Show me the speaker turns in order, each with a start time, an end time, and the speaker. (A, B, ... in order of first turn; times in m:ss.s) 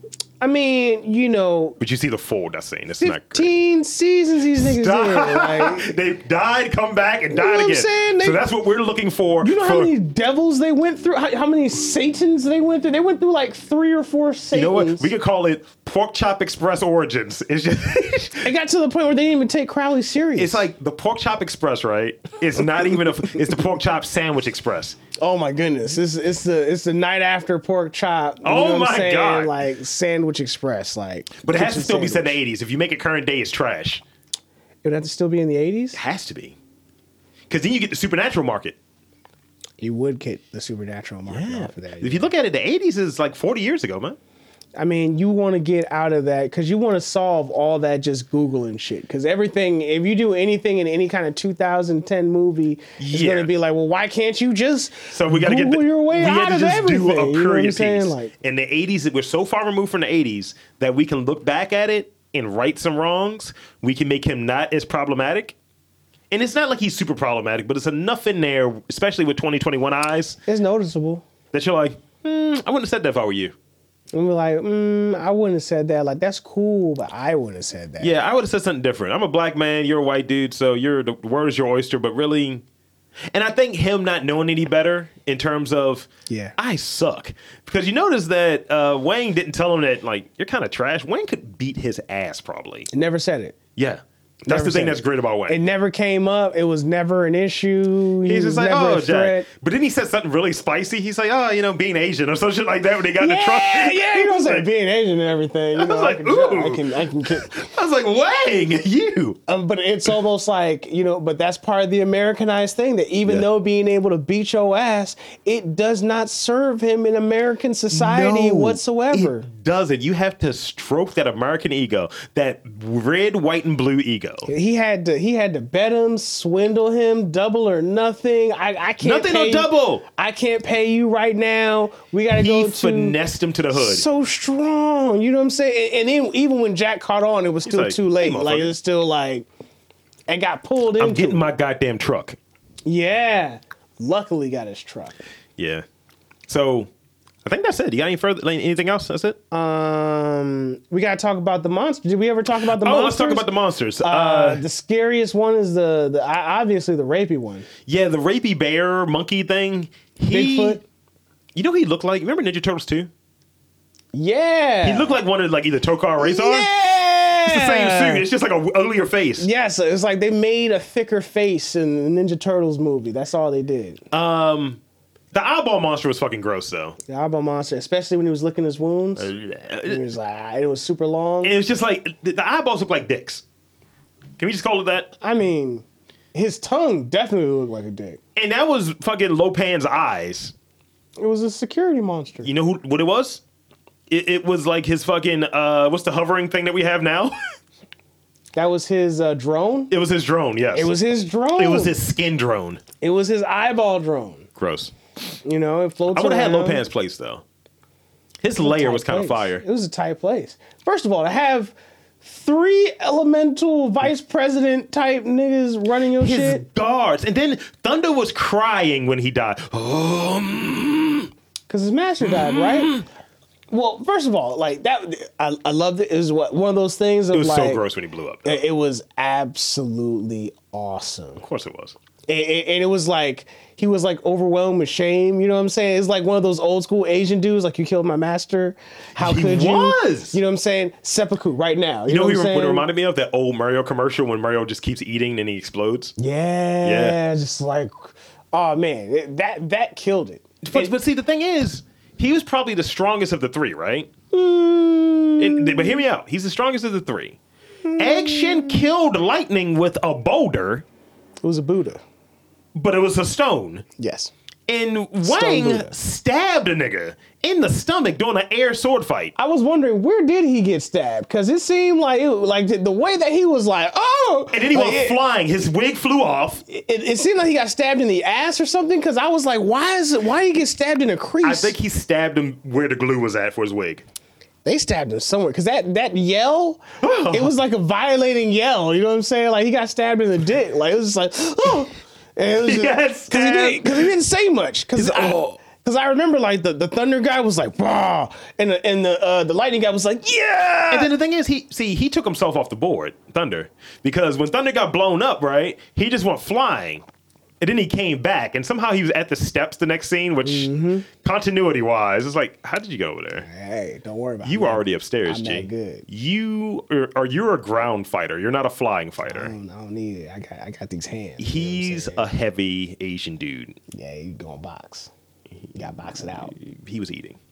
0:00.4-0:01.8 A
0:01.8-0:03.5 B
0:03.0-0:05.9 A
0:04.6-0:09.9 B
0:07.3-0:08.4 A
0:09.4-0:15.1 A
0:14.5-0:18.5 B
0:18.4-0:20.6 A
0:20.4-0:25.0 B
0:25.2-0:32.4 A
0:28.4-0:29.5 B
0:31.4-0:34.0 B
0:34.8-0:36.0 A
0:35.9-0:36.6 B
0:37.5-0:38.8 B
0:39.8-0:42.3 A
0:41.3-0:44.2 B
0:44.8-0:58.3 A
0:53.0-0:53.5 B
0:55.1-1:05.6 B
1:06.3-1:10.4 B
1:10.5-1:11.2 A
1:11.5-1:13.5 B
1:14.1-1:18.2 A
1:18.0-1:22.6 B
1:23.3-1:32.9 B
1:26.3-1:26.6 A
1:32.9-1:33.6 A
1:33.8-1:35.6 B
1:34.4-1:39.5 A
1:38.3-1:44.7 B
1:43.2-1:47.7 A
1:45.8-1:46.8 B
1:47.3-1:49.4 B
1:49.5-1:59.5 A
1:57.9-2:04.5 B
2:04.5-2:13.2 A
2:09.0-2:10.0 B
2:12.3-2:14.0 B
2:13.7-2:19.5 A
2:17.6-2:18.7 B
2:20.3-2:21.5 A
2:21.0-2:22.4 B
2:22.8-2:25.2 A
2:25.6-2:25.8 B
2:26.5-2:26.9 B
2:27.4-2:29.4 B
2:29.5-2:33.5 A
2:32.8-2:34.6 B
2:34.0-2:37.7 A
2:37.9-2:40.8 B
2:40.3-2:40.8 A
2:41.6-2:43.1 B
2:44.1-2:45.2 A
2:44.8-2:46.7 B
2:46.2-2:48.3 A
2:47.5-2:49.5 B
2:49.4-2:54.0 A
2:54.1-2:54.8 B
2:55.3-2:57.0 B
2:57.1-2:59.3 A
2:59.2-3:00.0 B
2:59.8-3:01.6 A
3:01.4-3:03.4 B
3:04.4-3:05.1 B
3:05.2-3:08.2 A
3:08.4-3:10.5 B
3:11.2-3:12.5 A
3:12.4-3:13.4 B
3:14.1-3:17.4 B
3:18.5-3:19.9 A
3:19.9-3:21.0 B
3:20.7-3:22.0 A
3:21.5-3:22.8 B
3:23.0-3:24.5 A
3:24.6-3:24.9 B
3:25.4-3:26.8 A
3:26.1-3:27.4 B
3:28.4-3:29.6 B
3:28.6-3:36.6 A
3:36.2-3:41.3 B
3:41.7-3:43.0 A
3:42.2-3:43.0 B
3:43.7-3:47.8 A
3:47.3-3:48.6 B
3:48.4-3:51.4 A
3:51.4-3:52.0 B
3:52.3-4:02.9 A
3:59.2-4:00.4 B
4:02.1-4:06.2 B
4:06.2-4:10.9 A
4:06.8-4:07.2 B
4:10.6-4:14.1 B
4:14.3-4:16.0 A
4:15.4-4:17.4 B
4:17.8-4:18.8 A
4:18.0-4:20.8 B
4:21.4-4:22.0 A
4:22.8-4:23.8 B
4:24.0-4:24.3 A
4:24.7-4:29.3 B
4:25.2-4:26.0 A
4:29.4-4:35.2 A
4:34.5-4:36.6 B
4:36.7-4:41.8 A
4:41.4-4:44.0 B
4:44.6-5:01.1 A
4:47.0-4:47.5 B
4:52.6-4:54.1 B
4:55.0-4:55.6 B
5:00.9-5:07.0 B
5:07.6-5:13.5 B
5:10.4-5:11.1 A
5:13.4-5:16.1 A
5:14.4-5:19.5 B
5:19.2-5:22.3 A
5:21.4-5:23.8 B
5:23.9-5:25.1 A
5:25.8-5:26.5 A
5:25.8-5:27.4 B